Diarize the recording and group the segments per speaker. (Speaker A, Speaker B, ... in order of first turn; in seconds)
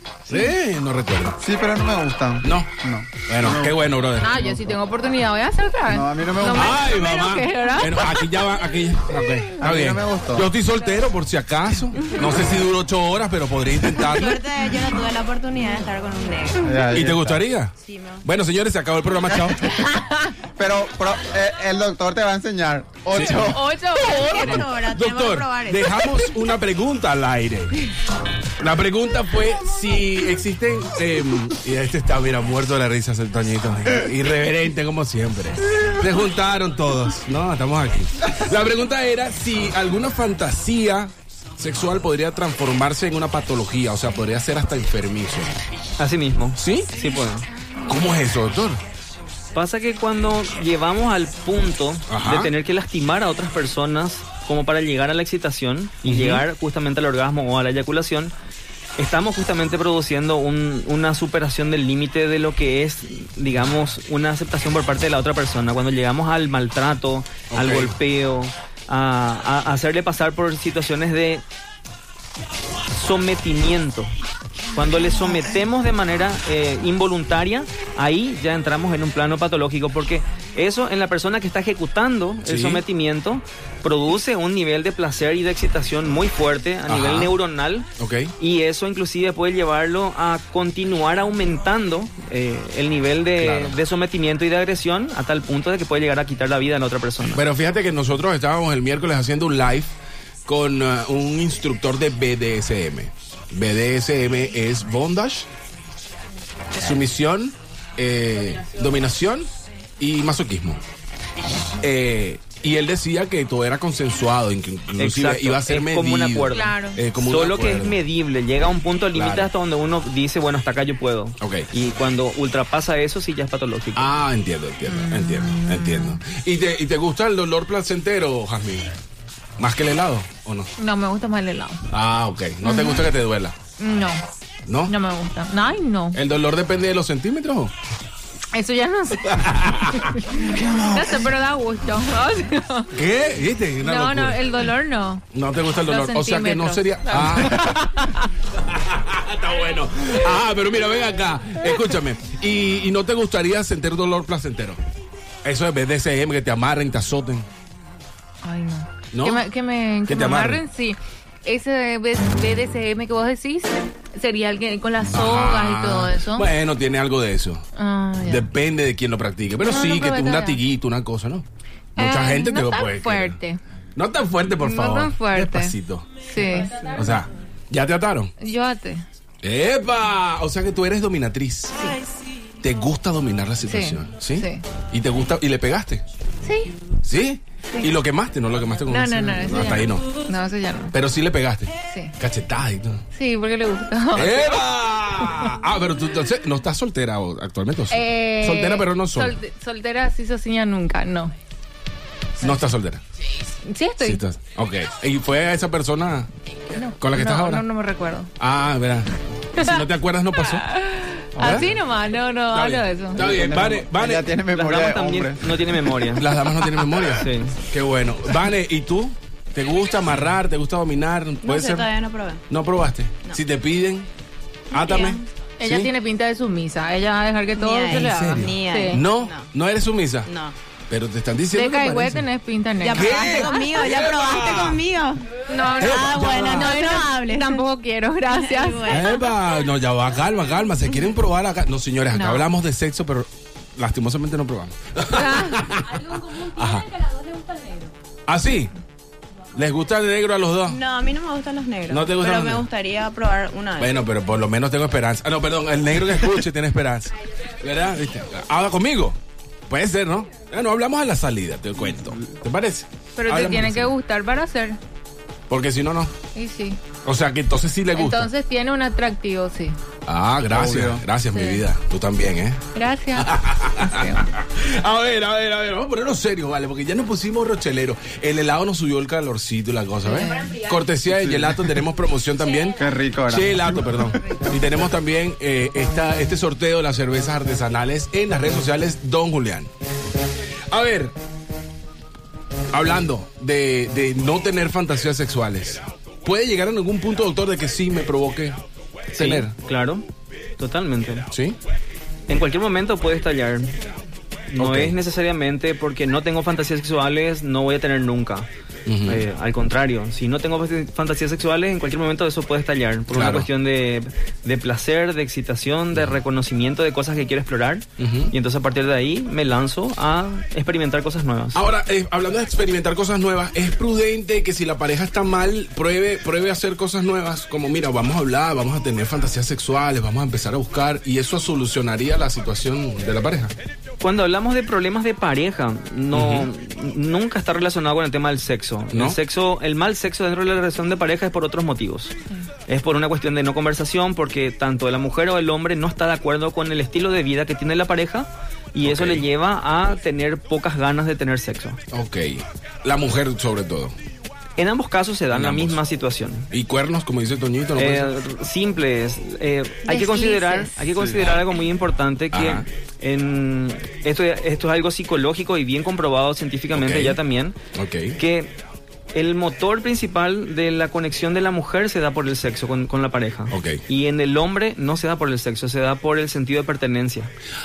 Speaker A: 0.3-1.4, 2.4-2.7, 3.2-4.5, 6.5-14.4, 16.9-19.7, 23.1-23.6, 24.3-27.8, 28.6-45.5, 46.6-46.9, 47.9-48.8, 52.1-52.5, 56.0-56.4, 67.5-68.0, 82.4-82.8, 86.9-87.3, 88.0-88.3, 93.4-93.8, 97.3-99.9, 100.5-105.5, 106.7-110.8, 111.8-118.0, 119.1-119.5, 121.4-121.7, 123.9-128.9, 129.6-130.7, 131.9-133.6, 134.7-134.9, 136.1-137.7, 139.3-140.2, 142.9-144.6, 145.3-147.9, 148.6-154.8, 155.4-157.5, 159.1-159.4, 160.1-160.6, 165.1-167.6, 168.2-171.4, 171.9-173.4, 173.9-176.1, 176.9-178.3, 179.4-181.8, 182.6-186.0, 187.0-190.1, 190.9-193.0, 194.1-199.3, 202.4-203.0, 204.0-206.3, 207.0-207.6, 208.4-210.7, 211.4-211.7, 212.5-214.3, 216.1-221.9, 222.5-224.1, 224.7-225.9, 228.0-230.3, 230.9-232.3, 232.9-234.8, 235.8-236.7, 238.8-246.9, 248.3-248.7, 249.5-250.8, 251.9-252.7, 253.8-259.2, 259.7-263.9, 265.5-266.1, 267.0-268.3, 270.1-272.6, 273.1-289.7, 290.7-291.1, 292.7-298.6, 299.1-299.5, 301.3-301.6, 304.6-304.9, 308.9-309.2, 313.1-313.5, 318.0-318.3, 321.5-333.5, 336.1-336.5, 338.9-339.2, 348.8-349.2, 351.9-353.9, 355.3-355.8, 356.5-358.1, 362.3-362.6, 366.7-367.2, 367.7-368.2, 373.5-373.8
Speaker B: 1.4-3.8, 4.4-4.7, 5.9-6.8, 9.6-10.5, 16.6-17.4, 20.6-23.7, 140.5-141.1, 211.3-211.7, 213.2-215.7, 270.5-271.0, 281.1-281.7, 282.8-284.2
Speaker C: 4.2-8.3, 19.9-20.2, 23.4-24.6, 116.5-117.0, 124.8-126.2, 130.8-131.8, 132.6-133.1, 133.8-134.2, 134.9-136.2, 138.5-142.9, 143.8-145.2, 145.8-148.2, 158.4-166.5, 167.8-168.5, 169.6-170.6, 171.9-173.6, 174.6-176.9, 178.4-179.0, 183.7-184.6, 186.4-186.7, 188.9-190.9, 193.1-194.6, 197.9-201.3, 203.7-204.2, 206.7-208.3, 209.6-209.8, 210.4-213.2, 225.6-229.1, 231.5-233.6, 235.5-239.0, 242.1-242.5, 245.1-245.7, 263.1-264.8, 266.3-266.8, 267.9-269.8, 271.3-271.6, 272.7-274.2, 280.0-280.6, 359.9-360.8
Speaker D: 14.0-16.8, 17.8-18.2, 24.0-26.0, 221.4-222.4, 224.7-225.2, 227.6-229.5, 230.2-230.5, 232.8-237.6, 238.2-239.3, 250.7-253.9
Speaker E: 46.0-47.5, 49.5-58.3, 59.0-71.4, 72.9-74.1, 74.7-87.9, 88.4-97.4, 115.0-124.1, 214.5-216.3, 217.1-217.6, 299.1-300.0, 300.6-301.3, 302.3-303.7, 304.5-308.5, 309.1-321.6, 334.0-342.1, 342.7-351.8, 354.6-356.5, 357.8-367.6, 368.2-368.5, 369.1-377.3